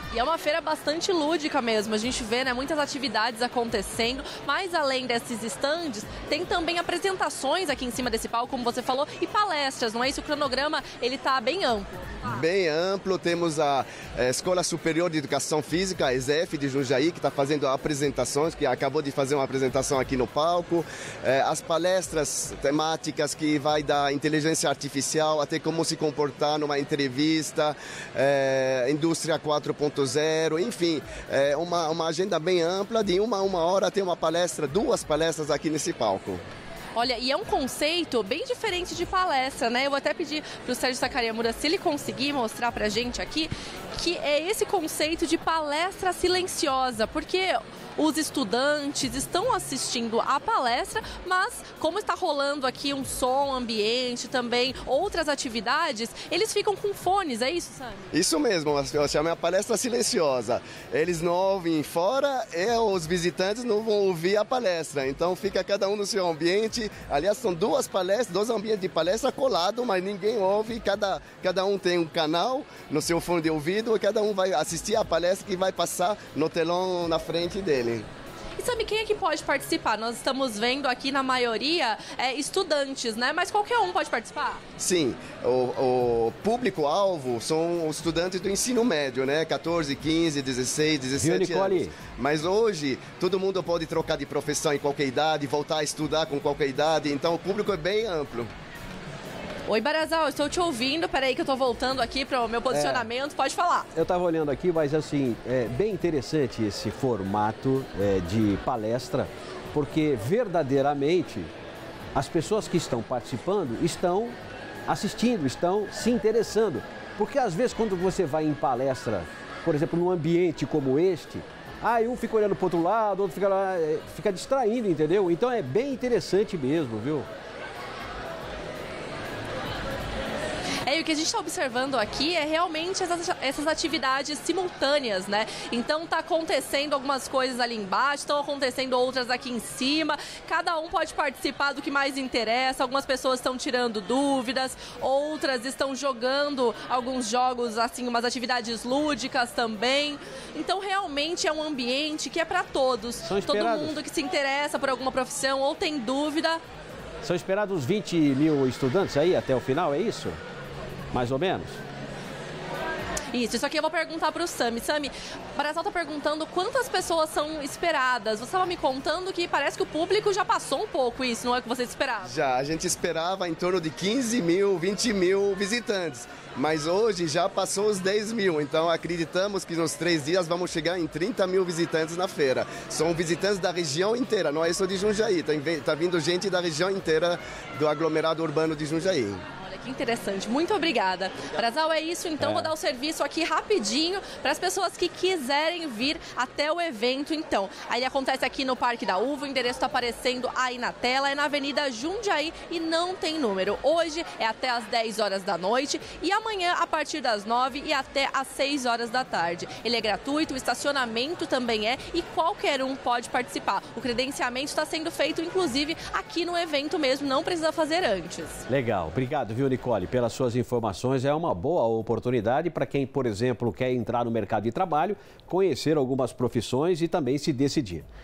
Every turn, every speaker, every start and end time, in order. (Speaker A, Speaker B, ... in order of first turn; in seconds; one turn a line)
Speaker A: 0.1-12.4
Speaker B: 12.2-36.4
Speaker A: 36.9-58.1
Speaker B: 58.1-78.0
Speaker A: 78.6-84.6
Speaker B: 84.8-98.5
Speaker C: 91.2-92.0
Speaker A: 99.7-103.9
Speaker C: 102.7-103.1
Speaker C: 103.9-111.5
Speaker C: 112.1-114.3
Speaker C: 114.9-127.3
Speaker A: 130.8-156.6
Speaker C: 153.2-154.0
Speaker C: 157.2-160.4
Speaker C: 161.1-161.8
Speaker A: 163.3-172.3
Speaker B: 172.2-189.4
Speaker A: 189.6-218.6
Speaker C: 192.4-192.7
Speaker C: 218.7-228.1